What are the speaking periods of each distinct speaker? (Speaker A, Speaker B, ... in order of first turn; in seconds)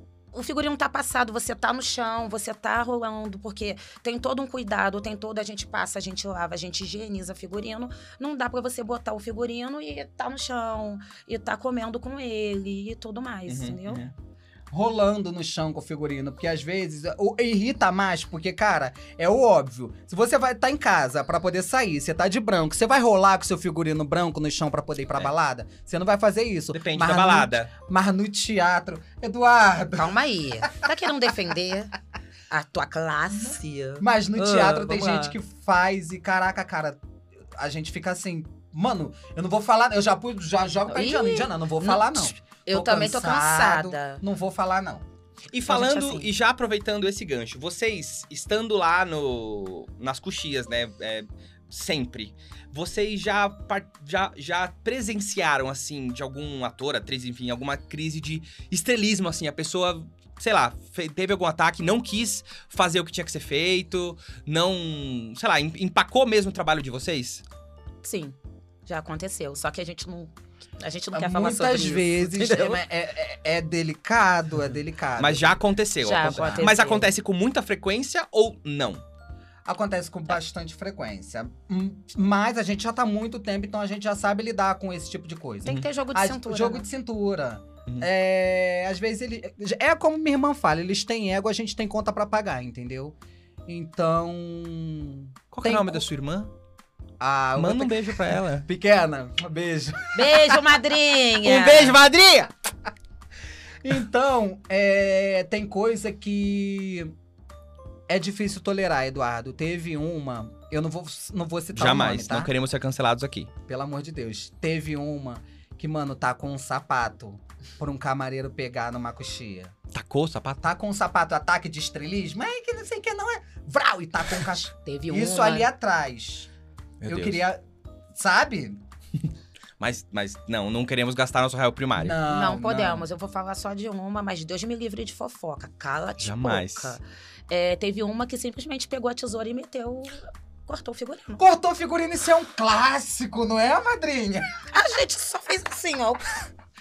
Speaker A: 0.3-14.1, 30.0-31.9, 32.5-35.4, 40.9-44.2, 45.7-46.3, 68.0-72.8, 76.0-77.1, 85.6-86.9, 100.1-102.0, 124.7-125.7, 132.2-141.4, 144.7-146.4
Speaker B: 13.5-14.1, 26.7-27.7, 45.5-67.4, 75.2-79.0, 95.5-96.5, 97.6-98.7, 101.4-102.5, 111.8-113.5, 119.9-120.6, 127.0-127.4, 129.8-132.2, 136.2-137.0
Speaker C: 14.7-30.9, 34.0-45.1, 71.1-75.6, 76.2-76.7, 79.7-96.1, 97.2-100.6, 103.8-107.1, 108.1-112.5, 113.7-119.8, 120.6-126.5, 127.1-127.6, 128.1-128.8, 132.0-133.1, 141.4-144.5